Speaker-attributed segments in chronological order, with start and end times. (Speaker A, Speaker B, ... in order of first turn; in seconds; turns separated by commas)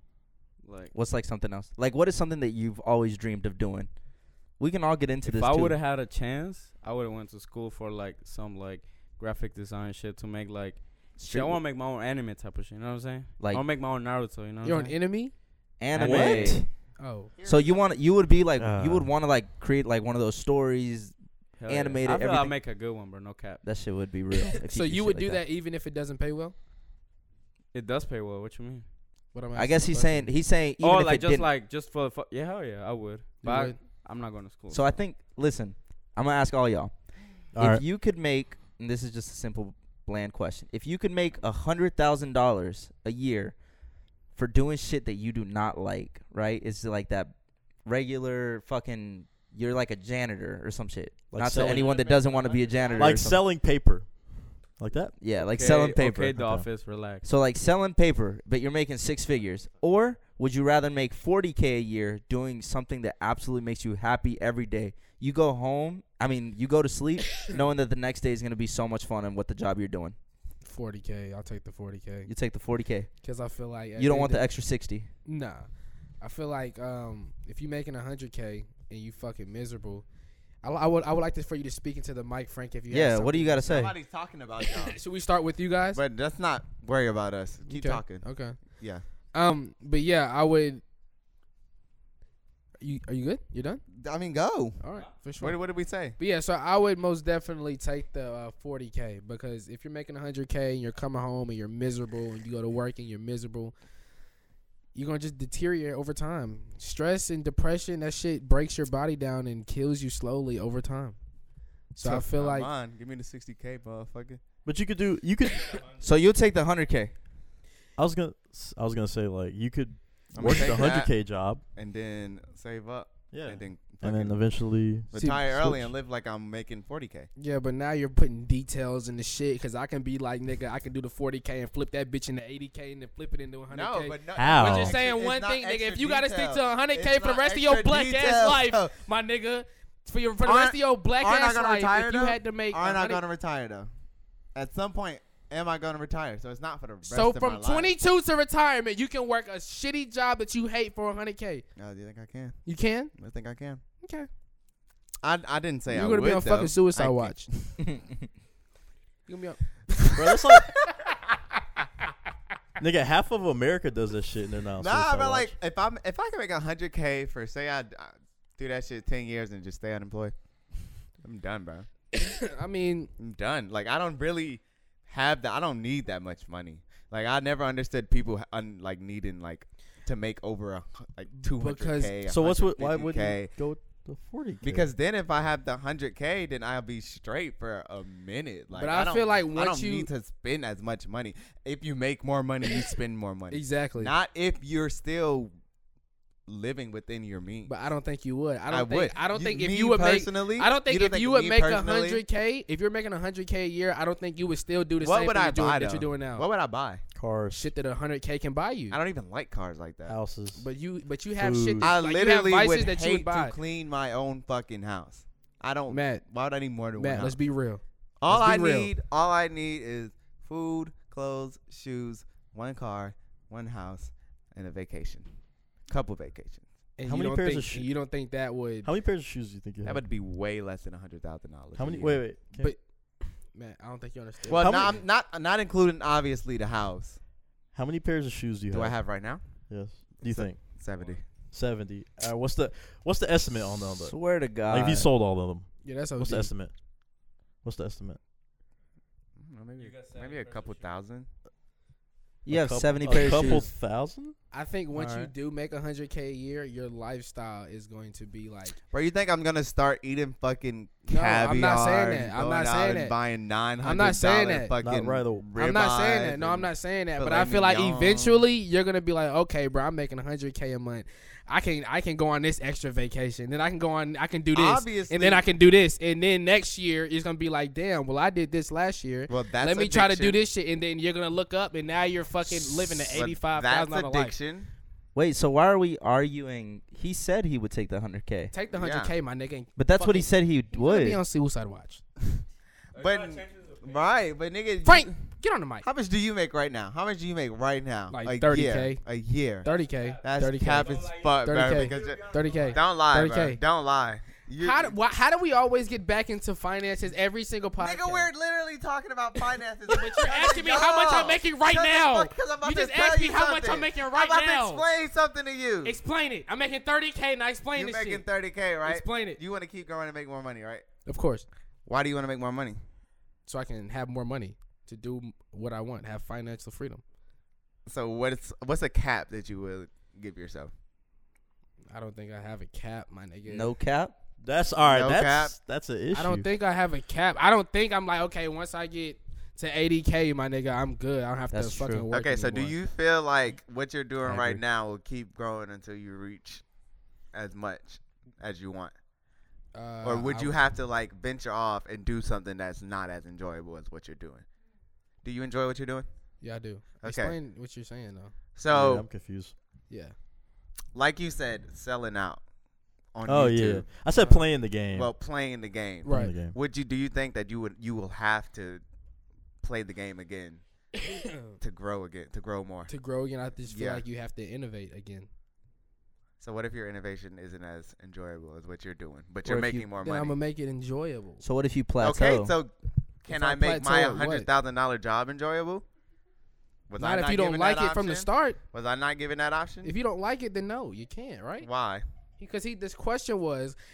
Speaker A: 0.6-0.9, Speaker B: 0.9-3.9, Speaker B: 4.5-5.8, Speaker A: 5.2-15.0, Speaker B: 11.2-11.6, Speaker B: 13.4-13.6, Speaker C: 14.6-15.3, Speaker B: 15.8-16.7, Speaker A: 15.9-16.7, Speaker D: 16.0-16.6, Speaker C: 17.0-17.3, Speaker E: 17.4-18.2, Speaker B: 17.4-22.6, Speaker D: 18.6-19.1, Speaker A: 21.6-23.6, Speaker B: 23.6-25.4, Speaker C: 24.6-26.6, Speaker A: 27.7-28.9, Speaker C: 29.3-30.3, Speaker B: 29.6-31.5, Speaker A: 30.8-35.0, Speaker C: 33.4-33.8, Speaker B: 34.7-36.9, Speaker D: 37.5-37.8, Speaker B: 37.6-43.6, Speaker B: 44.3-53.4, Speaker D: 51.3-52.0, Speaker A: 51.6-53.1, Speaker E: 52.7-53.1, Speaker D: 53.0-55.1, Speaker B: 55.2-56.4, Speaker A: 55.4-57.2, Speaker D: 56.4-56.7, Speaker B: 57.2-70.2, Speaker C: 70.6-72.3, Speaker B: 72.3-73.1, Speaker C: 73.2-74.5, Speaker B: 74.0-75.1, Speaker C: 75.2-75.7, Speaker C: 76.2-80.0, Speaker C: 80.6-83.6, Speaker B: 82.9-84.0, Speaker E: 83.6-85.0, Speaker C: 84.6-86.0, Speaker E: 86.0-89.0, Speaker C: 87.7-88.6, Speaker C: 89.3-90.8, Speaker C: 92.8-93.8, Speaker E: 94.0-94.8, Speaker C: 94.8-95.6, Speaker E: 95.4-96.2, Speaker C: 96.2-103.8, Speaker C: 105.0-111.2, Speaker C: 111.9-112.7, Speaker E: 112.0-114.4, Speaker D: 114.7-115.8, Speaker B: 116.0-117.1, Speaker D: 118.0-121.6, Speaker E: 120.3-124.5, Speaker D: 123.3-125.9, Speaker E: 125.1-127.3, Speaker C: 125.1-125.8, Speaker C: 127.4-143.2, Speaker E: 133.7-138.9, Speaker D: 134.4-135.0, Speaker E: 140.4-143.9, Speaker E: 144.6-147.9, Speaker C: 147.1-151.6, Speaker E: 151.8-153.8, Speaker C: 152.7-153.1, Speaker C: 154.0-154.3, Speaker E: 155.2-157.8, Speaker C: 155.9-157.5, Speaker C: 159.3-160.2, Speaker D: 160.2-160.7, Speaker D: 162.8-165.5, Speaker E: 164.8-170.3, Speaker E: 171.2-171.9, Speaker C: 172.1-173.1, Speaker E: 173.2-183.5, Speaker C: 181.6-182.2, Speaker D: 182.3-184.9, Speaker E: 184.6-195.5, Speaker C: 188.7-190.1, Speaker C: 193.5-194.1, Speaker E: 196.5-197.7, Speaker C: 197.7-206.4, Speaker E: 198.7-202.2, Speaker E: 205.0-207.0, Speaker D: 207.2-207.7, Speaker C: 207.5-209.0, Speaker E: 208.9-210.2, Speaker D: 210.1-210.7, Speaker C: 210.6-213.6, Speaker D: 211.3-211.9, Speaker E: 211.8-217.4, Speaker C: 215.9-216.2, Speaker C: 217.0-218.9, Speaker E: 218.2-225.3, Speaker E: 225.9-226.7, Speaker C: 227.0-228.9, Speaker D: 227.1-227.9, Speaker D: 228.8-230.0, Speaker E: 229.8-232.2, Speaker D: 231.8-232.8, Speaker C: 232.6-234.9, Speaker E: 234.5-237.2, Speaker D: 234.5-235.0, Speaker D: 237.7-239.0, Speaker E: 238.7-239.4, Speaker D: 239.7-240.6, Speaker E: 240.2-241.2, Speaker D: 241.5-246.8, Speaker B: 244.0-245.1, Speaker C: 245.8-246.5, Speaker D: 247.6-248.2, Speaker E: 249.4-251.3, Speaker A: 249.8-250.9, Speaker B: 252.4-253.7, Speaker D: 252.5-254.4, Speaker C: 254.5-258.8, Speaker E: 255.0-255.2, Speaker E: 258.9-268.4, Speaker C: 261.1-263.1, Speaker C: 263.8-264.7, Speaker D: 264.8-265.5, Speaker C: 265.6-284.4, Speaker E: 274.5-275.4, Speaker E: 279.3-280.4, Speaker E: 282.4-284.7, Speaker B: 285.1-288.5, Speaker C: 288.5-292.0, Speaker E: 288.7-289.1, Speaker B: 289.8-291.2, Speaker A: 292.9-294.1, Speaker E: 293.0-295.1, Speaker C: 294.8-295.9, Speaker E: 295.8-299.7, Speaker C: 298.1-299.0, Speaker C: 299.6-303.6, Speaker A: 299.6-302.9, Speaker E: 300.2-304.9, Speaker C: 304.6-308.3, Speaker E: 307.8-315.9, Speaker C: 309.9-314.8, Speaker C: 315.8-318.3, Speaker E: 317.8-320.9, Speaker C: 318.9-319.4, Speaker C: 321.1-321.5, Speaker E: 321.9-322.8, Speaker C: 323.5-327.0, Speaker E: 327.9-330.7, Speaker C: 331.9-333.7, Speaker B: 333.5-334.1, Speaker D: 334.4-336.5, Speaker E: 334.8-335.5, Speaker C: 336.1-342.8, Speaker B: 341.5-342.1, Speaker E: 342.1-346.6, Speaker D: 344.2-344.6, Speaker E: 347.3-348.9, Speaker C: 349.7-350.6, Speaker E: 350.0-354.5, Speaker E: 355.2-356.1, Speaker C: 356.4-358.3, Speaker E: 357.0-357.4, Speaker E: 358.6-359.1, Speaker D: 358.7-359.5, Speaker E: 360.9-362.4, Speaker E: 363.1-364.4, Speaker D: 363.3-365.1, Speaker E: 364.9-368.8, Speaker C: 366.1-366.3, Speaker D: 366.1-366.6, Speaker E: 369.6-370.6, Speaker C: 371.0-371.6, Speaker E: 371.6-372.9, Speaker C: 372.9-375.3, Speaker E: 373.7-374.0, Speaker E: 376.4-380.4, Speaker B: 379.4-379.9, Speaker C: 380.0-381.4, Speaker B: 381.4-382.6, Speaker E: 382.0-385.9, Speaker C: 383.3-384.5, Speaker E: 386.9-389.9, Speaker C: 387.0-388.6, Speaker C: 389.8-391.7, Speaker E: 391.6-392.1, Speaker C: 392.4-393.8